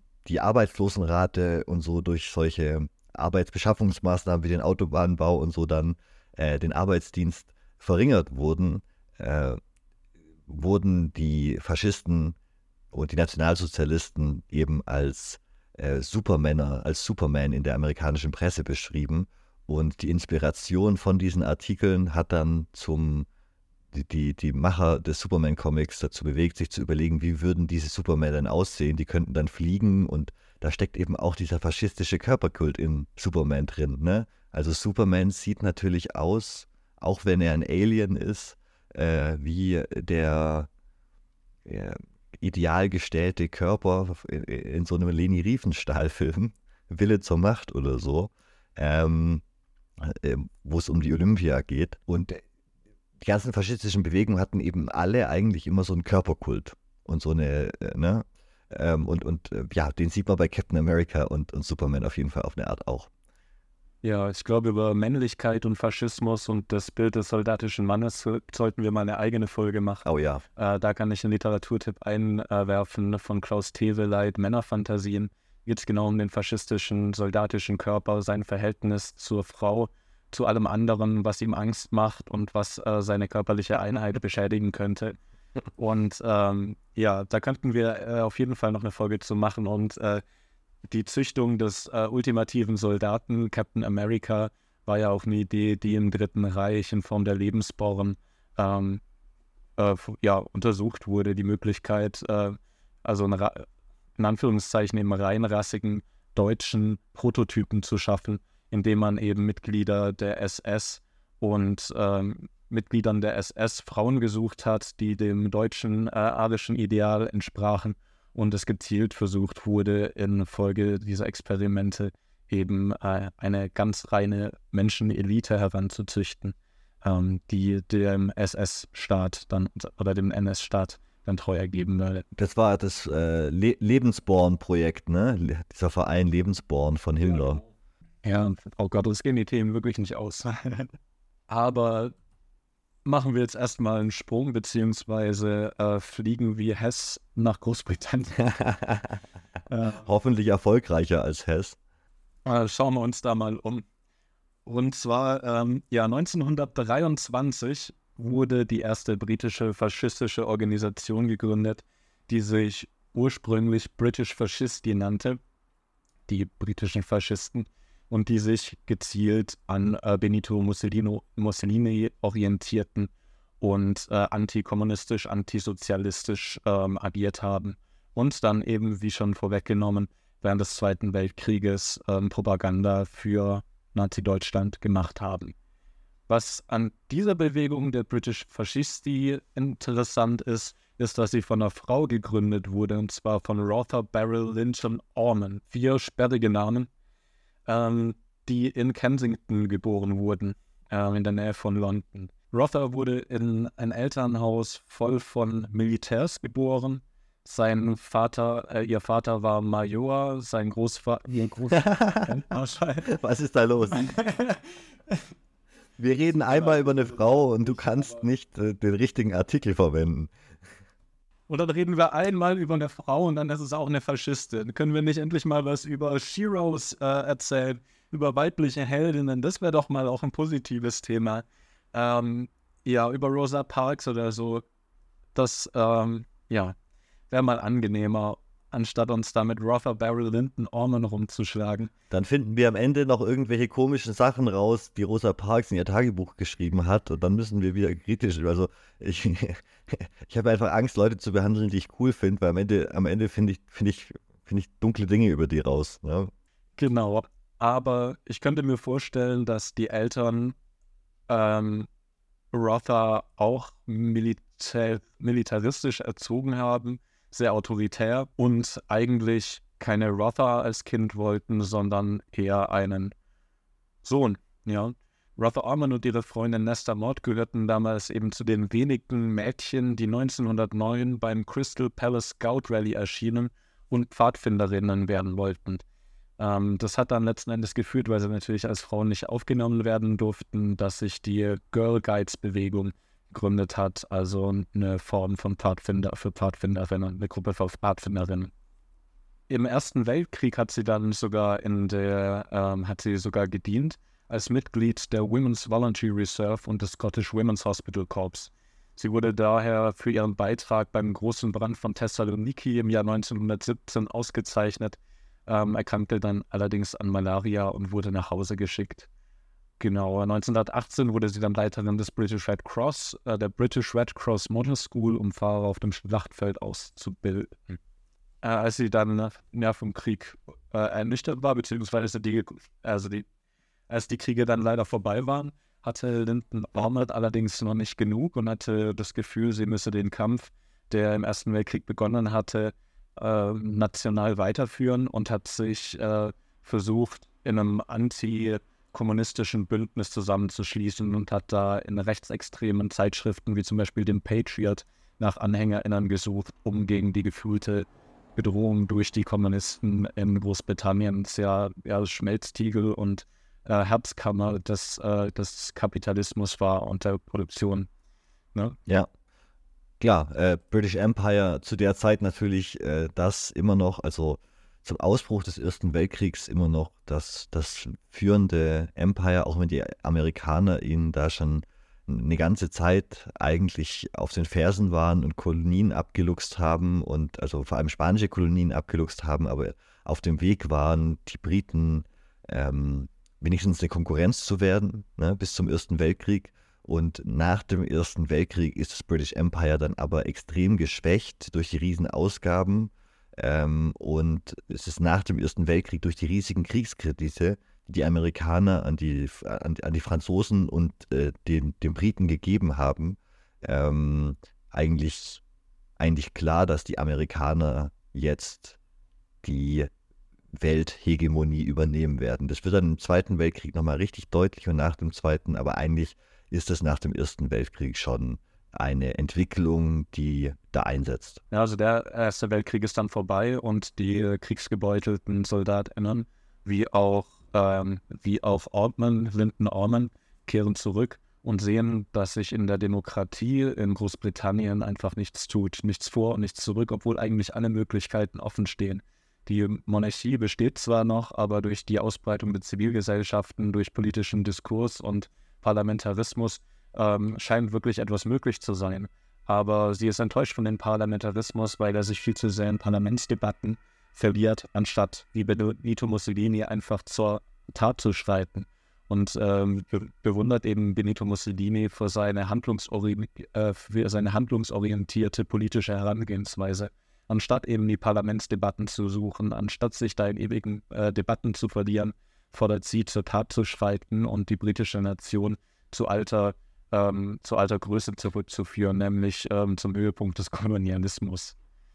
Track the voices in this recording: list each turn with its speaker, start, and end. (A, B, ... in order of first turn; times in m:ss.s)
0:00.2-0:09.6 A
0:10.5-0:12.4 A
0:12.9-0:23.3 A
0:23.9-0:40.7 A
0:41.6-0:49.4 A
0:50.0-0:52.4 A
0:53.2-1:03.1 A
1:04.0-1:25.2 B
1:10.0-1:10.4 A
1:25.8-1:30.2 B
1:30.9-1:39.0 B
1:39.8-1:43.6 B
1:44.2-2:12.2 B
2:12.3-2:17.6 A
2:18.2-2:20.9 B
2:21.5-2:22.1 B
2:23.0-2:28.4 B
2:28.4-2:29.2 A
2:29.7-2:30.0 B
2:30.0-2:31.8 A
2:32.4-2:33.8 B
2:34.6-2:45.4 B
2:46.3-3:05.5 B
3:06.3-3:16.9 B
3:17.7-3:33.1 B
3:31.7-3:32.4 A
3:33.0-3:34.1 A
3:33.9-3:35.2 B
3:36.0-3:40.3 A
3:36.4-3:38.2 B
3:41.5-3:54.6 B
3:55.3-3:56.7 B
3:57.3-4:01.9 B
4:02.1-4:16.3 A
4:16.8-4:20.6 B
4:21.3-4:21.9 B
4:22.5-4:33.1 B
4:34.0-4:45.8 B
4:46.4-4:58.5 B
4:59.5-5:19.1 B
5:19.8-5:27.8 B
5:28.4-5:33.2 B
5:33.9-6:07.9 B
6:10.0-6:55.4 A
6:56.0-6:58.8 A
6:59.4-6:59.9 A
7:00.6-7:11.4 A
7:11.5-8:11.5 B